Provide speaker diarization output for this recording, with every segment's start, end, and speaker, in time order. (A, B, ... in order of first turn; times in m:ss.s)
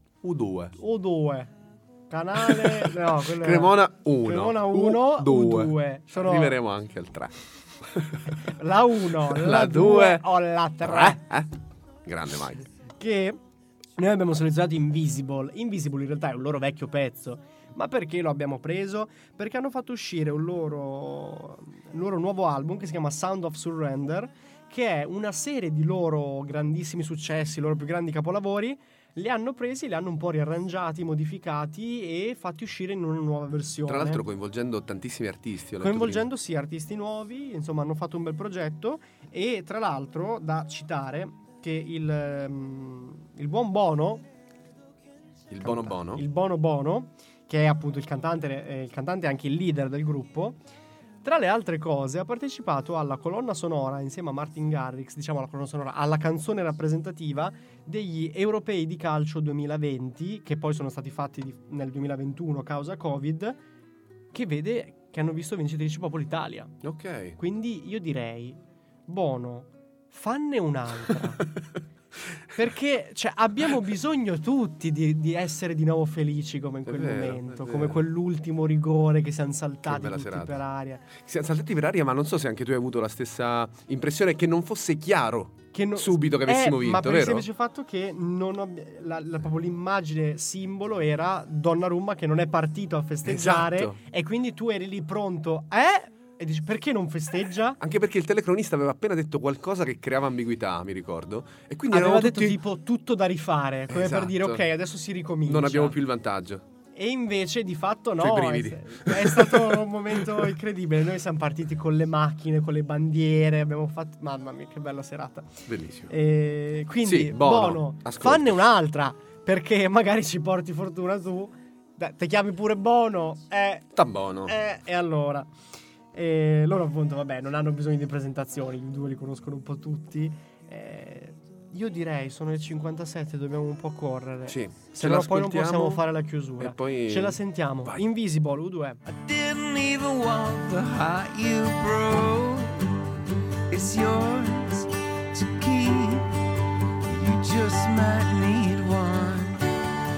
0:00.2-0:00.8 A
0:00.8-0:01.5 B
0:02.1-0:06.6 B
0:02.4-0:08.4 A
0:08.4-0:11.2 B
0:09.2-0:11.5 A
0:12.0-0:12.7 A
0:13.0-0:13.4 B
0:14.0-0:34.2 B
0:33.9-0:36.3 A
0:35.8-0:44.3 B
0:45.5-0:46.2 A
0:45.6-0:50.6 B
0:51.2-1:03.6 B
1:04.3-1:06.8 B
1:06.8-1:07.4 A
1:07.4-1:11.5 B
1:12.6-1:21.1 B
1:16.8-1:18.0 A
1:19.8-1:20.6 A
1:21.2-1:27.5 A
1:25.7-1:37.8 B
1:33.2-1:34.0 A
1:37.8-1:42.6 A
1:41.9-1:46.0 B
1:43.9-1:44.6 A
1:45.4-1:46.6 A
1:47.0-2:05.5 B
1:48.2-1:50.5 A
1:55.7-1:56.1 A
1:57.0-1:58.6 A
2:04.0-2:04.5 A
2:06.1-2:19.0 B
2:14.5-2:18.0 A
2:19.1-2:22.9 C
2:23.7-2:26.3 C
2:27.0-2:29.7 C